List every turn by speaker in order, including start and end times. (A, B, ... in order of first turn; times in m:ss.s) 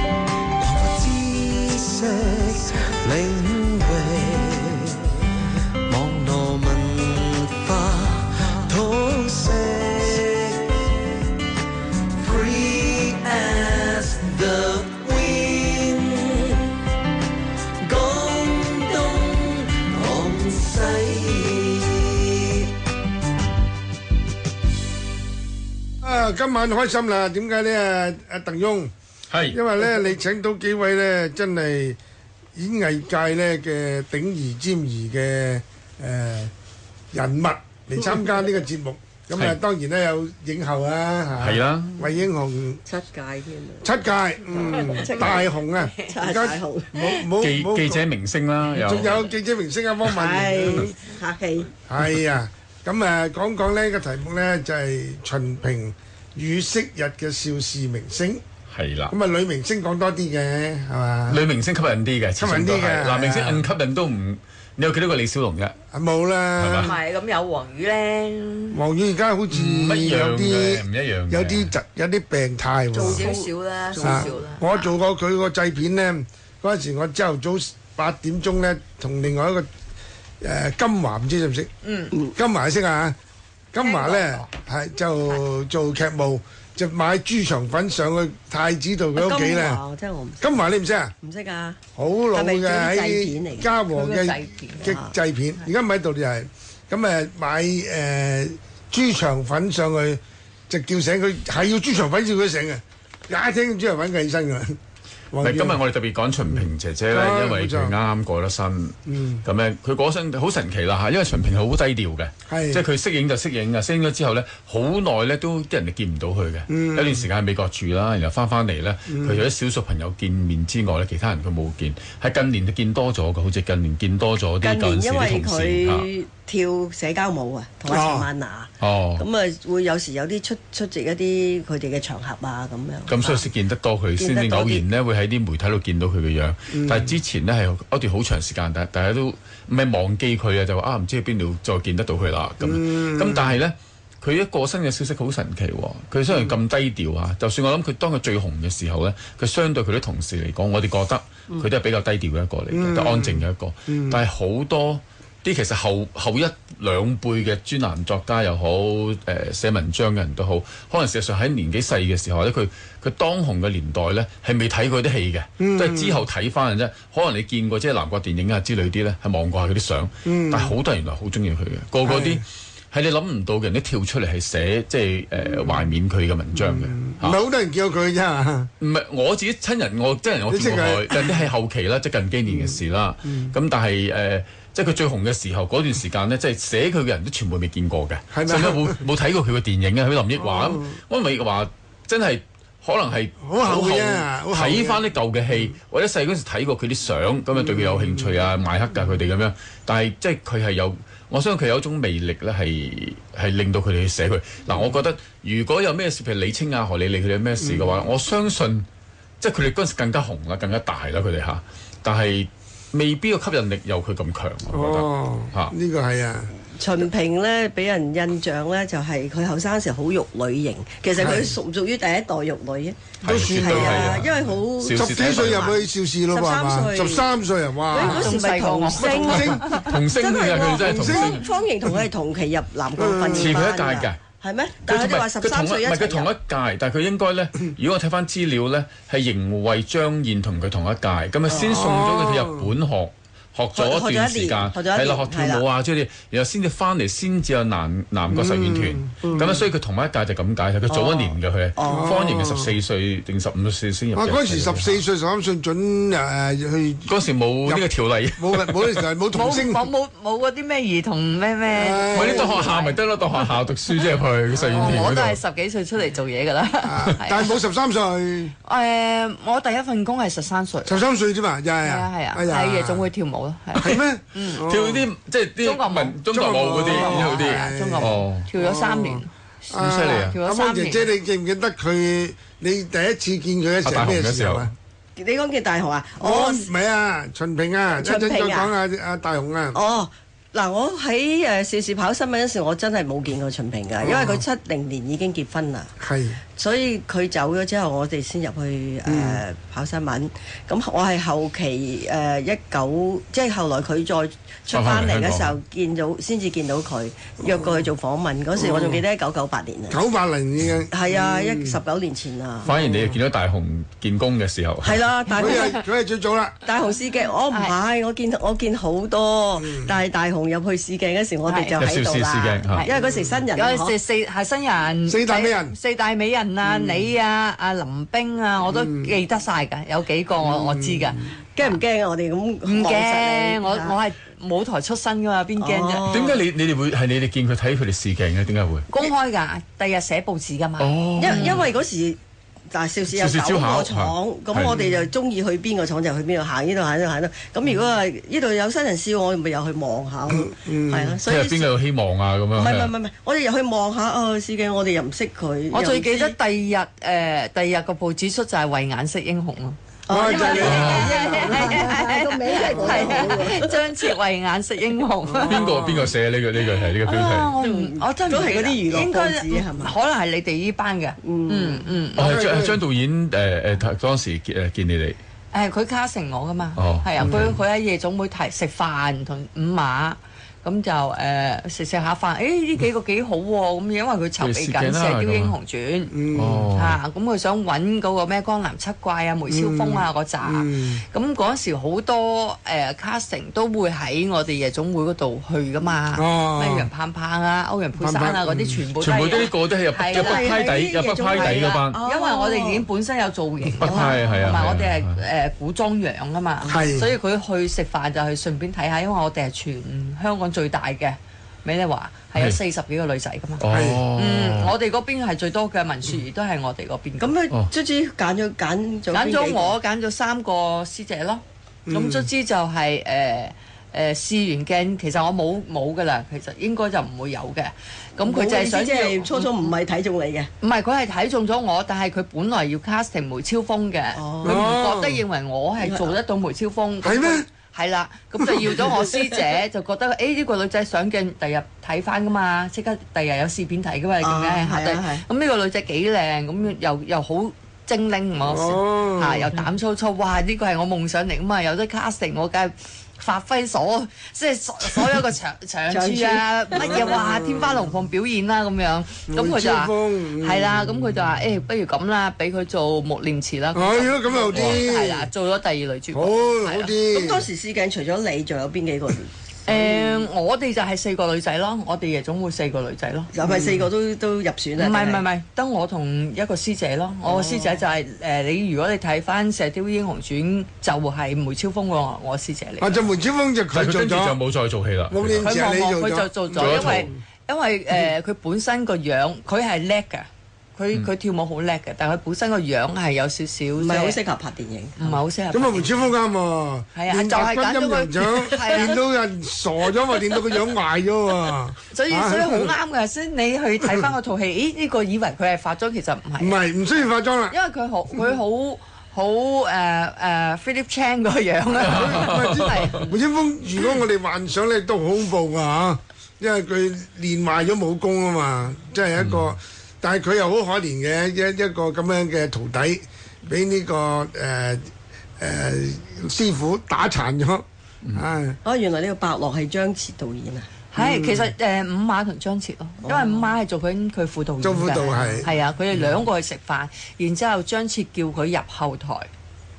0:00.6-0:05.2 A
0:05.8-0:11.0 A
0:12.1-0:16.8 A
0:17.8-0:22.7 A
0:26.0-0:28.9 B
0:29.3-0:29.6 C
0:29.5-0:32.0 B
0:32.5-0:36.5 B
0:37.1-0:42.8 B
0:41.4-0:42.0 C
0:42.9-0:44.0 D
0:43.8-0:48.0 B
0:44.5-0:45.5 D
0:46.1-0:47.1 D
0:47.4-0:49.3 C
0:48.7-0:51.0 B
0:50.0-0:51.7 D
0:51.9-0:58.4 B
0:58.7-0:59.1 C
0:59.1-1:01.4 B
1:01.3-1:05.8 C
1:02.4-1:03.7 B
1:05.9-1:06.9 B
1:06.6-1:06.9 C
1:06.8-1:08.8 E
1:08.7-1:13.3 B
1:09.5-1:11.7 C
1:12.9-1:14.4 D
1:12.9-1:14.9 E
1:13.9-1:19.7 B
1:20.4-1:21.7 B
1:21.8-1:22.1 E
1:22.3-1:23.2 B
1:23.7-1:29.8 B
1:23.8-1:24.5 E
1:29.1-1:30.5 D
1:30.4-1:31.1 B
1:31.2-1:31.8 D
1:32.0-1:44.8 B
1:32.3-1:33.7 D
1:33.9-1:35.0 E
1:34.8-1:35.1 D
1:45.3-1:45.8 B
1:45.4-2:06.1 C
1:46.5-1:47.9 B
1:49.1-1:49.4 B
1:52.5-1:52.8 B
1:56.7-1:57.3 B
1:59.1-1:59.5 B
2:04.6-2:13.5 D
2:07.9-2:08.3 B
2:08.8-2:09.2 C
2:13.1-2:57.4 C
2:14.2-2:14.8 D
2:16.7-2:17.2 B
2:22.6-2:23.6 B
2:26.3-2:26.6 B
2:32.7-2:34.2 B
2:45.6-2:46.2 B
2:50.2-2:50.8 B
2:52.0-2:52.4 B
2:55.4-2:55.9 B
2:56.5-2:58.7 B
2:58.8-3:28.9 C
3:00.5-3:01.5 B
3:02.5-3:03.5 B
3:08.3-3:09.0 B
3:10.3-3:11.0 B
3:13.4-3:15.7 B
3:17.5-3:18.5 B
3:27.6-3:28.0 B
3:29.4-3:35.7 C
3:34.7-3:36.5 B
3:36.8-3:47.3 D
3:41.2-3:41.5 B
3:43.2-3:44.2 B
3:43.2-3:45.8 C
3:44.9-3:48.4 B
3:47.9-3:56.3 D
3:48.0-3:49.7 E
3:49.0-3:49.7 B
3:49.3-3:51.5 C
3:50.8-3:51.4 B
3:53.0-3:53.6 B
3:53.3-3:54.2 C
3:54.8-4:15.0 C
4:01.5-4:01.8 D
4:01.7-4:02.7 B
4:03.7-4:05.6 D
4:08.3-4:09.1 B
4:09.2-4:09.6 D
4:10.9-4:12.1 D
4:11.8-4:12.8 B
4:14.1-4:17.1 B
4:17.1-4:19.0 C
4:17.6-4:19.9 B
4:19.3-4:23.0 E
4:21.7-4:22.7 B
4:22.1-4:25.4 C
4:24.6-4:25.0 B
4:24.7-4:27.6 E
4:26.8-4:28.5 B
4:28.6-4:31.0 E
4:30.8-4:33.1 B
4:31.8-4:34.6 E
4:33.7-4:35.1 B
4:34.5-4:38.5 C
4:35.6-4:39.3 E
4:36.3-4:44.7 B
4:39.7-4:40.4 C
4:39.8-4:41.1 E
4:43.8-4:44.7 C
4:45.2-4:46.7 D
4:46.2-4:49.8 B
4:48.0-4:48.7 D
4:49.7-4:55.9 D
4:54.0-4:54.4 B
4:56.0-4:56.4 B
4:56.6-5:10.0 D
4:59.0-4:59.4 B
5:04.7-5:05.6 C
5:07.5-5:07.9 B
5:08.5-5:09.0 B
5:09.9-5:11.8 B
5:10.9-5:12.7 D
5:12.6-5:15.1 C
5:12.7-5:13.2 B
5:14.8-5:15.8 D
5:15.4-5:16.6 B
5:16.6-5:23.9 D
5:19.6-5:19.9 B
5:21.4-5:21.9 E
5:21.8-5:22.9 C
5:22.9-5:23.4 B
5:23.5-5:31.8 E
5:25.0-5:25.7 B
5:26.6-5:26.9 D
5:28.7-5:29.1 B
5:30.4-5:31.3 B
5:31.5-5:34.0 D
5:32.6-5:36.1 E
5:35.6-5:36.4 D
5:36.1-5:38.8 C
5:38.9-5:41.6 E
5:40.8-5:41.7 C
5:41.2-5:42.2 D
5:42.7-5:51.7 D
5:43.1-5:44.7 C
5:50.3-5:51.2 B
5:51.2-5:52.9 C
5:52.5-5:56.3 D
5:55.7-6:05.7 E
6:00.1-6:03.8 D
6:00.1-6:01.9 B
6:00.6-6:01.1 C
6:05.2-6:06.1 B
6:05.4-6:07.6 C
6:07.0-6:12.3 E
6:07.6-6:10.0 D
6:11.2-6:11.8 D
6:12.2-6:15.2 C
6:12.2-6:12.8 B
6:15.5-6:26.2 E
6:16.8-6:17.6 C
6:17.2-6:17.5 B
6:24.4-6:25.6 C
6:26.1-6:26.7 B
6:26.3-6:27.0 C
6:26.7-6:40.7 E
6:29.5-6:31.0 B
6:36.1-6:36.9 B
6:37.9-6:38.8 B
6:39.0-6:42.0 C
6:40.1-6:42.8 D
6:41.2-6:57.4 E
6:43.8-6:45.2 C
6:43.8-6:44.2 D
6:46.7-6:47.1 B
6:53.6-6:54.7 C
6:53.7-6:54.0 B
6:57.2-6:59.7 D
6:59.1-7:09.5 E
7:01.9-7:02.3 B
7:08.2-7:10.5 D
7:10.6-7:46.9 E
7:14.2-7:14.6 D
7:14.4-7:15.2 B
7:15.8-7:16.1 D
7:17.0-7:17.4 B
7:18.4-7:18.8 B
7:24.2-7:25.2 D
7:28.4-7:29.5 B
7:35.9-7:37.5 D
7:36.8-7:37.7 B
7:39.3-7:41.2 B
7:43.7-7:45.3 B
7:44.5-7:44.8 C
7:46.1-7:47.5 B
7:47.1-7:50.3 D
7:49.6-7:53.3 E
7:53.3-7:55.2 D
7:53.4-7:53.9 B
7:54.8-8:03.1 E
7:57.2-7:57.8 D
8:02.8-8:04.4 B
8:03.7-8:05.5 C
8:05.1-8:07.2 B
8:05.4-8:14.2 E
8:06.6-8:07.1 C
8:13.8-8:15.2 D
8:15.0-8:16.0 E
8:15.5-8:22.7 B
8:16.9-8:19.0 E
8:21.9-8:26.6 E
8:26.4-8:27.5 B
8:27.5-8:33.1 E
8:31.8-8:48.6 B
8:31.9-8:33.0 C
8:39.2-8:39.5 C
8:48.6-8:50.7 D
8:50.9-8:59.3 E
8:51.0-8:51.5 B
8:53.0-8:53.5 D
8:54.6-8:56.0 B